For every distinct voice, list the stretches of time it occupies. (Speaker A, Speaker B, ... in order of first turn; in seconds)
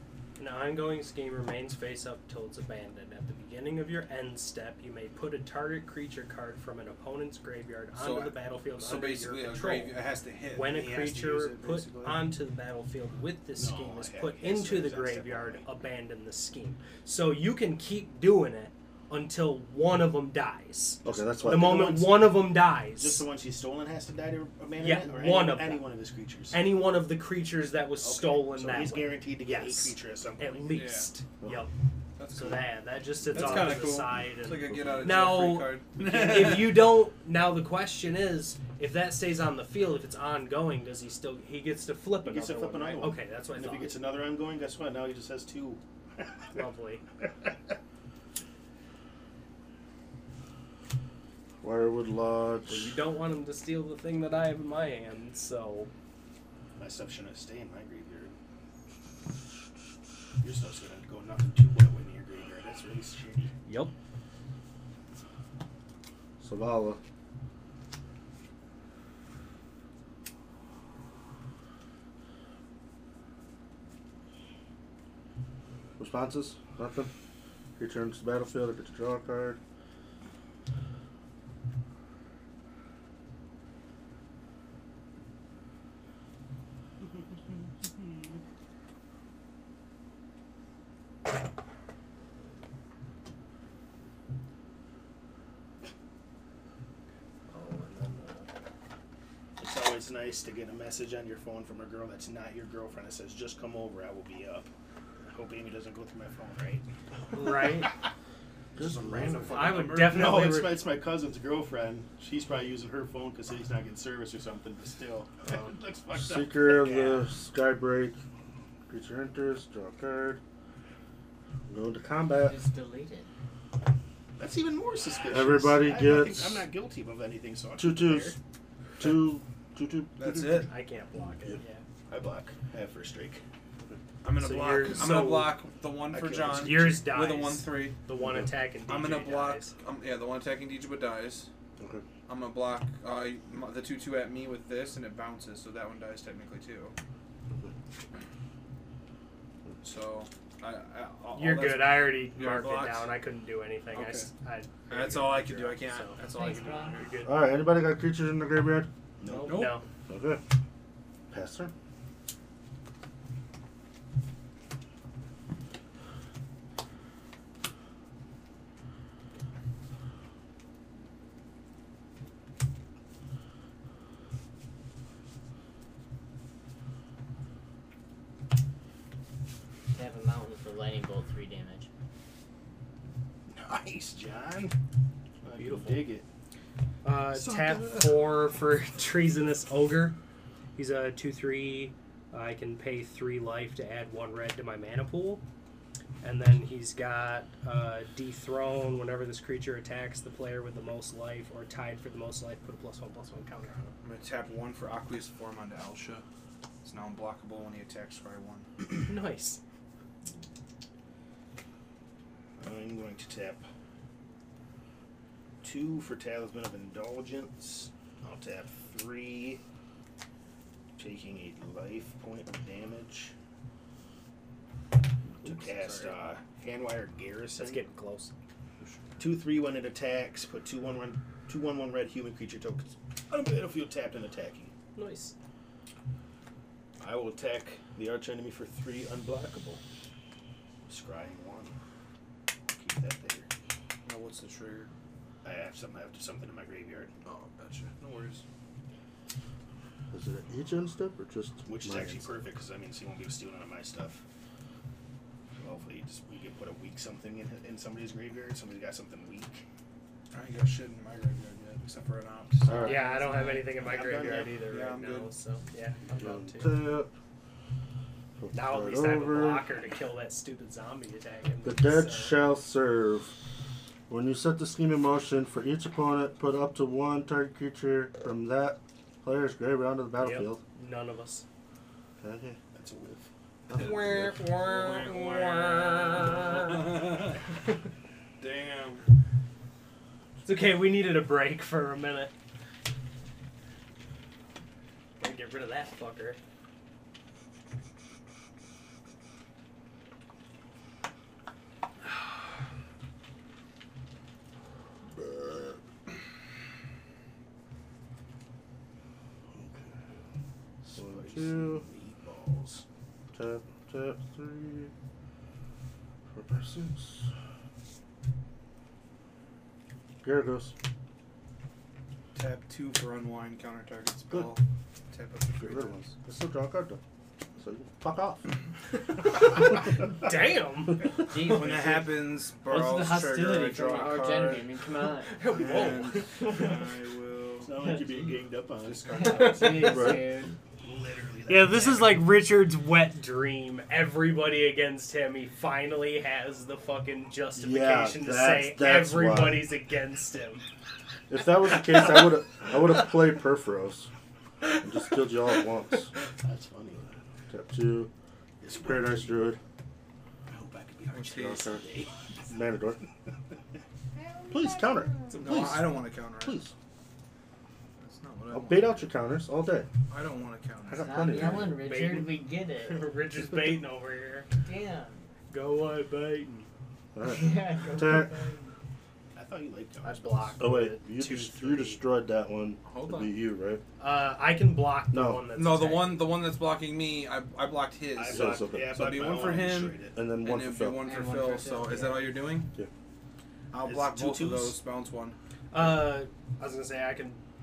Speaker A: 0.4-10.0, 10.5-23.2, 24.8-25.9, 26.5-31.7, 32.3-43.9, 46.5-47.0, 52.7-55.9, 63.6-63.9, 107.3-107.9, 109.3-110.8, 130.7-131.8, 134.3-135.6, 136.5-139.7, 151.3-156.2, 157.0-157.3, 159.3-159.8, 185.6-186.1, 187.0-190.2, 190.8-195.4, 196.2-203.9, 208.9-209.6, 225.8-226.1, 227.6-228.3, 234.9-235.3, 262.8-266.9, 268.5-272.4, 280.2-281.4, 283.8-287.0, 290.4-292.3, 295.2-296.4, 330.1-331.1, 335.3-336.3, 339.2-340.2, 341.5-350.6, 371.6-374.5, 375.5-376.7, 380.0-382.0, 384.0-386.3, 395.7-397.4
Speaker B: 7.9-12.3, 30.7-31.1, 32.2-32.7, 33.3-36.8, 109.1-110.5, 130.2-130.7, 134.2-138.0, 138.8-141.5, 142.3-146.9, 149.8-153.1, 153.9-154.3, 154.9-157.2, 159.4-159.8, 204.0-206.2, 206.8-208.7, 244.0-244.9, 247.2-248.4, 260.3-262.9, 264.6-265.3, 283.7-287.5, 288.4-289.1, 322.3-326.1, 331.4-334.7, 335.4-337.8, 338.8-339.9, 361.1-361.7, 365.3-366.6, 368.0-369.1, 370.1-371.4, 382.8-383.3, 385.5-392.7, 393.7-395.4
Speaker C: 13.6-15.6, 21.0-26.7, 28.0-30.7, 33.5-33.7, 42.2-46.6, 56.8-58.3, 60.4-63.5, 99.6-104.7, 105.3-106.8, 110.0-117.2, 124.4-128.3, 132.1-133.4, 136.1-137.0, 159.2-159.7, 183.5-184.8, 185.4-186.2, 187.4-188.0, 212.6-213.6, 215.6-219.6, 221.0-223.3, 225.4-227.8, 229.2-234.7, 237.0-239.8, 240.9-241.7, 242.7-243.5, 245.4-247.1, 251.7-254.2, 255.6-259.6, 263.7-264.6, 282.7-283.3, 310.8-312.8, 337.6-339.3, 340.8-342.2, 356.4-357.0, 358.6-359.5, 360.5-362.4, 379.3-380.6, 388.1-390.2, 393.8-394.8
Speaker D: 21.0-22.1, 34.6-35.1, 51.6-52.9, 66.4-67.0, 76.0-77.1, 77.8-79.6, 108.8-109.9, 116.1-118.2, 118.9-120.4, 121.7-122.6, 125.3-126.6, 127.8-128.3, 129.0-130.7, 138.2-138.5, 141.8-142.1, 157.2-158.9, 160.1-160.4, 161.3-161.7, 250.1-252.4, 262.7-263.0, 266.2-267.1, 268.4-269.7, 271.6-273.3, 274.1-280.6, 282.2-282.6, 283.7-284.4, 305.2-305.8, 309.5-310.0, 310.9-311.9, 313.3-314.9, 316.3-317.3, 320.2-320.7, 325.6-327.0, 327.6-328.5, 339.8-340.3, 347.6-349.7, 351.3-354.1, 354.7-356.1, 357.5-358.1, 358.7-359.6, 361.2-361.8, 362.5-363.0, 364.5-366.7, 368.5-369.9, 370.8-371.8, 377.1-378.3, 380.6-383.8, 385.1-385.4, 388.3-389.1, 390.1-391.1
Speaker E: 122.4-123.3, 156.3-157.0, 179.9-181.9, 262.7-263.7, 331.3-335.5, 336.2-336.8, 337.8-338.4, 339.1-340.6, 364.1-365.4, 371.0-373.1, 374.6-375.3, 377.2-378.7, 391.0-392.4